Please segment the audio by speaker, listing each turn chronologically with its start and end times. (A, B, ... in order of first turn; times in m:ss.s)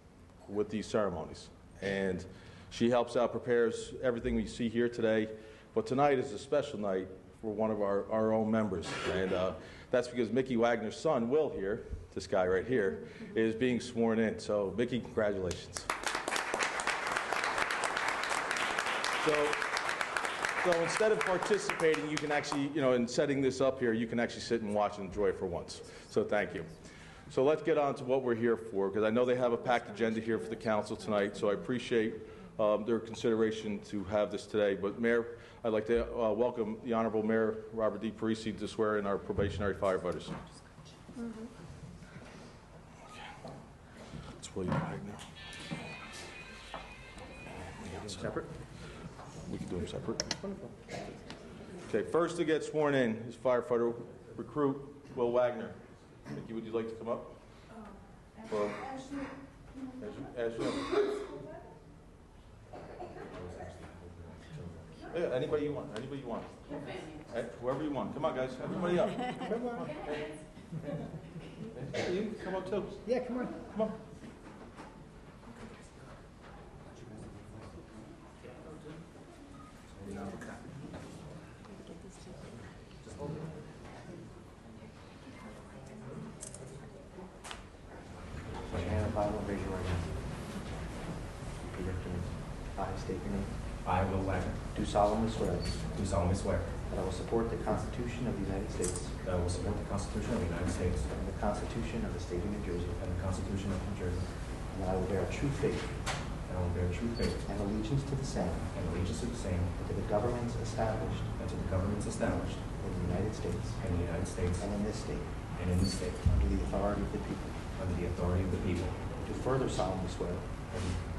0:00.4-0:15.9 A
0:19.2-0:19.6 A
0:20.6-0:26.7 A
0:27.3-0:40.4 A
0:44.4-0:45.2 A
0:47.8-0:48.5 A
0:49.4-0:50.5 A
0:51.8-0:57.3 A
0:58.4-0:59.0 A
1:00.0-1:01.2 A
1:03.3-1:05.0 B
1:05.1-1:06.5 A
1:07.2-1:10.1 A
1:11.7-1:13.9 A
1:28.7-1:30.1 C
1:31.6-1:33.5 C
1:33.8-1:34.6 B
1:34.7-1:36.0 C
1:35.9-1:36.7 B
1:36.9-1:39.2 C
1:39.2-1:41.1 B
1:41.1-1:43.0 C
1:42.9-1:44.3 B
1:44.7-1:46.0 C
1:46.4-1:47.4 B
1:47.4-1:48.7 C
1:48.7-1:49.7 B
1:49.8-1:51.3 C
1:51.4-1:52.6 B
1:52.8-1:53.8 C
1:53.8-1:54.7 B
1:54.6-1:55.3 C
1:55.6-1:56.2 B
1:56.2-1:57.6 C
1:57.8-1:59.0 B
1:59.2-2:00.5 C
2:00.7-2:01.0 B